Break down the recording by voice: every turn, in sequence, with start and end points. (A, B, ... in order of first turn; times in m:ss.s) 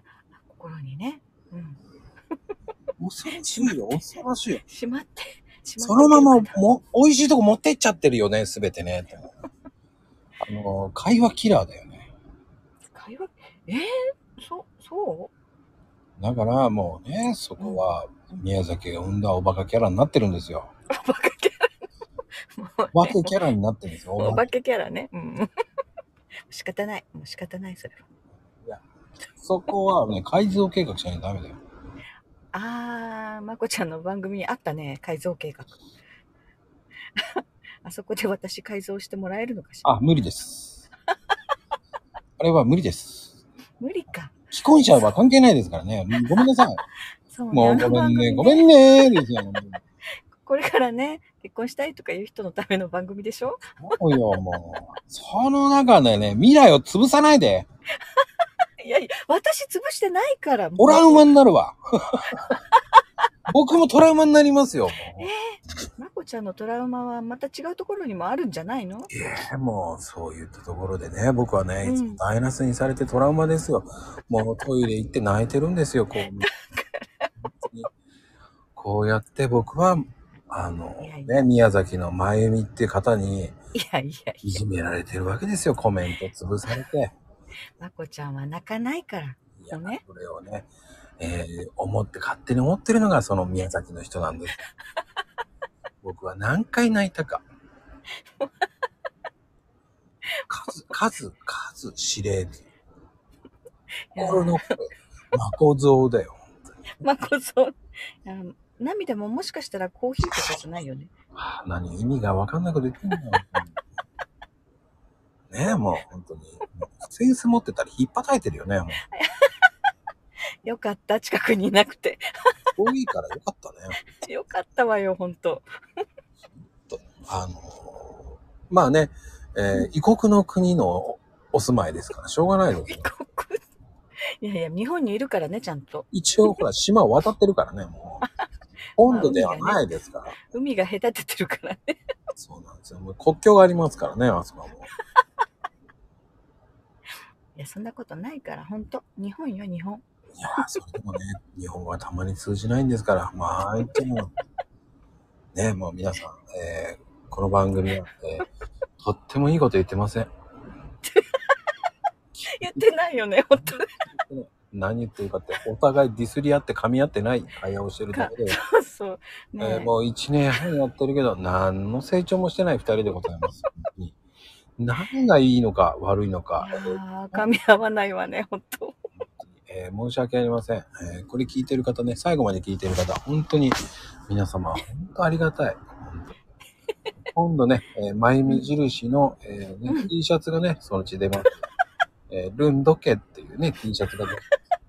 0:00.2-0:01.8 A
0:03.0-0:04.6 B
0:03.4-0:03.8 A
0:04.7-0:06.6 A
0:05.8-0:09.3 B
0:10.4-0:12.1 B
0:12.9-0:15.3 A
0:16.2-0:20.7 B
0:20.9-0:21.7 A
0:22.5-0:23.4 A
0:22.9-0:24.5 B
0:24.2-0:25.5 A
0:26.5-0:28.0 A
0:29.4-0:31.6 B
0:32.5-0:35.8 A
0:37.2-0:39.9 A
0:39.8-0:40.8 B
0:42.4-0:43.3 B
0:43.8-0:44.4 A
0:44.5-0:46.8 B
0:47.3-0:49.1 A
0:47.5-0:49.8 B
0:50.4-0:53.6 A
0:53.8-0:57.7 B
0:58.8-1:01.3 A
1:00.8-1:02.5 B
1:02.5-1:02.8 A
1:03.5-1:05.3 B
1:05.2-1:09.1 A
1:09.1-1:16.5 B
1:11.8-1:12.2 A
1:16.4-1:17.3 A
1:17.6-1:17.9 B
1:18.8-1:23.6 B
1:21.0-1:21.4 A
1:23.7-1:24.6 A
1:24.4-1:27.2 B
1:27.8-1:30.0 A
1:29.6-1:34.6 B
1:36.0-1:37.4 B
1:40.5-1:42.7 B
1:44.1-1:44.6 A
1:44.2-1:46.4 B
1:47.0-1:51.1 A
1:51.4-1:53.8 B
1:55.5-1:59.0 B
1:59.1-1:59.7 A
2:00.6-2:02.5 A
2:02.8-2:04.0 B
2:04.0-2:05.7 A
2:06.9-2:13.1 B
2:12.8-2:13.6 A
2:14.4-2:16.5 A
2:16.1-2:18.2 B
2:19.0-2:20.4 B
2:19.0-2:19.8 A
2:20.4-2:22.0 A
2:22.4-2:24.9 B
2:27.6-2:30.0 A
2:30.4-2:34.3 B
2:35.5-2:38.5 B
2:39.0-2:40.3 B
2:41.0-2:41.4 A
2:42.4-2:42.9 B
2:42.5-2:43.9 A
2:43.5-2:48.6 B
2:48.1-2:49.9 A
2:49.6-2:54.2 B
2:54.8-2:57.5 B
2:56.6-2:59.0 A
2:59.3-3:06.3 B
3:07.3-3:11.5 B
3:12.3-3:14.4 B